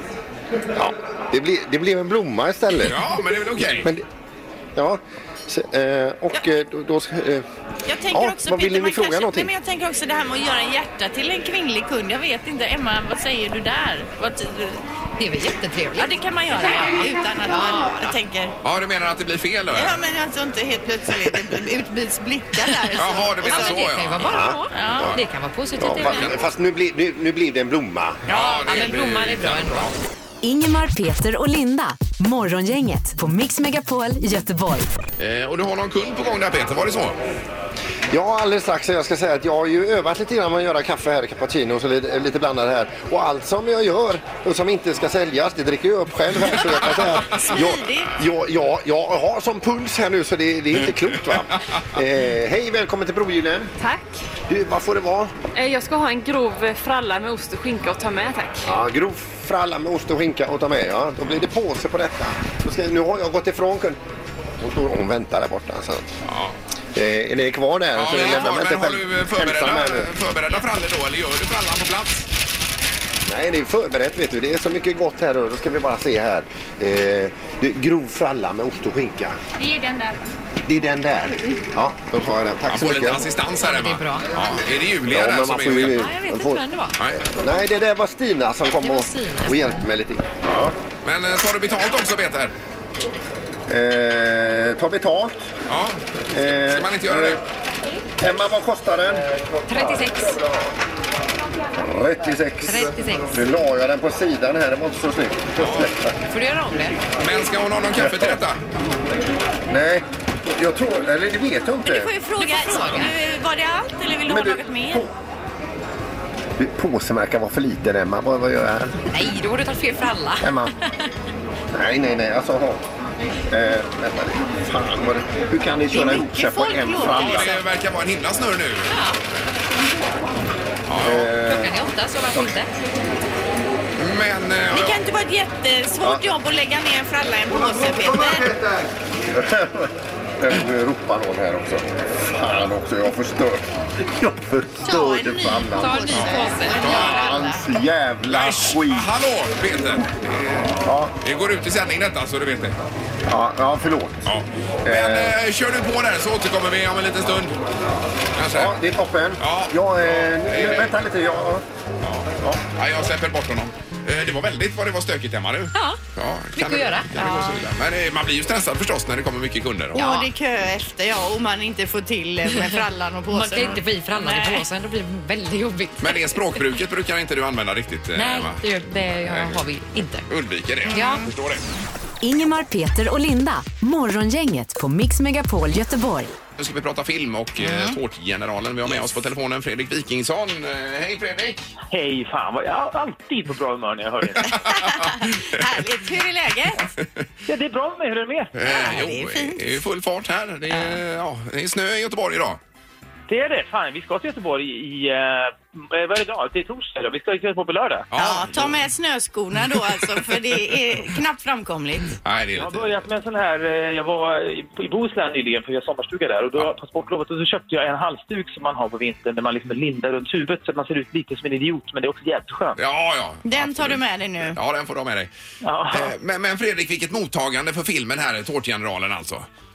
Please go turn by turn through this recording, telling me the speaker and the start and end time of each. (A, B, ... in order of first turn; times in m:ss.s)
0:00.7-0:03.0 A
0:02.8-0:03.9 B
0:03.7-0:04.0 A
0:04.7-0:07.4 A
0:07.9-0:14.8 C
0:08.1-0:09.5 A
0:15.2-0:16.2 D
0:15.9-0:18.5 C
0:18.6-0:20.0 B
0:19.7-0:23.9 C
0:22.9-0:24.4 B
0:23.3-0:26.3 D
0:24.2-0:25.2 A
0:24.7-0:25.2 C
0:25.8-0:28.2 A
0:26.1-0:26.4 B
0:28.3-0:29.9 B
0:28.3-0:30.0 D
0:30.4-0:34.9 E
0:35.2-0:37.2 B
0:38.1-0:53.7 A
0:47.5-0:48.1 C
0:53.8-0:54.2 F
0:54.5-0:55.4 A
0:55.5-0:58.7 F
0:58.6-1:04.0 A
1:04.6-1:06.2 A
1:06.3-1:06.5 B
1:06.9-1:10.1 A
1:07.9-1:12.3 B
1:13.3-1:19.4 A
1:20.6-1:23.3 A
1:22.6-1:26.0 B
1:23.6-1:24.3 D
1:25.1-1:26.6 A
1:25.9-1:27.0 D
1:27.2-1:30.8 A
1:28.8-1:29.9 D
1:31.0-1:32.5 B
1:33.7-1:35.5 A
1:35.7-1:36.0 B
1:36.3-1:37.4 A
1:36.6-1:37.4 B
1:38.2-1:40.8 A
1:39.7-1:40.4 D
1:41.8-1:46.1 A
1:42.6-1:43.4 D
1:45.6-1:45.9 B
1:46.3-1:47.0 D
1:47.2-1:48.6 B
1:48.0-1:48.4 A
1:49.7-1:52.1 A
1:51.8-1:55.0 C
1:52.4-1:53.2 D
1:54.2-1:55.1 A
1:56.6-1:59.1 A
1:59.1-2:00.7 D
2:00.4-2:00.7 A
2:01.7-2:02.8 A
2:03.5-2:07.6 A
2:05.9-2:07.6 C
2:07.1-2:08.9 B
2:08.9-2:09.2 D
2:10.9-2:11.3 B
2:11.0-2:12.6 A
2:11.3-2:12.7 D
2:14.0-2:15.0 B
2:14.7-2:18.5 C
2:17.5-2:26.1 A
2:24.8-2:27.6 C
2:25.7-2:27.1 D
2:26.1-2:27.3 B
2:26.9-2:29.1 A
2:28.3-2:32.8 B
2:30.8-2:31.2 A
2:33.2-2:34.3 A
2:34.2-2:37.6 B
2:34.8-2:35.3 A
2:38.3-2:38.8 B
2:38.5-2:41.6 A
2:39.4-2:40.9 B
2:42.0-2:50.2 B
2:45.7-2:46.0 D
2:46.5-2:47.6 D
2:49.9-2:54.6 C
2:52.5-2:56.6 D
2:56.0-2:58.6 B
2:58.1-3:00.3 D
2:59.2-2:59.6 B
3:00.3-3:01.6 B
3:00.9-3:01.3 C
3:00.9-3:01.3 D
3:02.2-3:06.3 E
3:06.6-3:11.7 B
3:07.6-3:08.0 C
3:11.9-3:14.5 G
3:14.3-3:15.6 B
3:14.4-3:16.9 C
3:17.5-3:18.5 G
3:18.5-3:22.6 B
3:18.6-3:19.6 C
3:20.7-3:21.0 C
3:23.3-3:28.0 G
3:28.1-3:28.9 B
3:28.1-3:32.0 C
3:32.2-3:33.0 B
3:32.6-3:42.8 G
3:42.8-3:45.3 B
3:43.4-3:44.6 C
3:45.6-3:46.1 G
3:45.9-3:49.4 B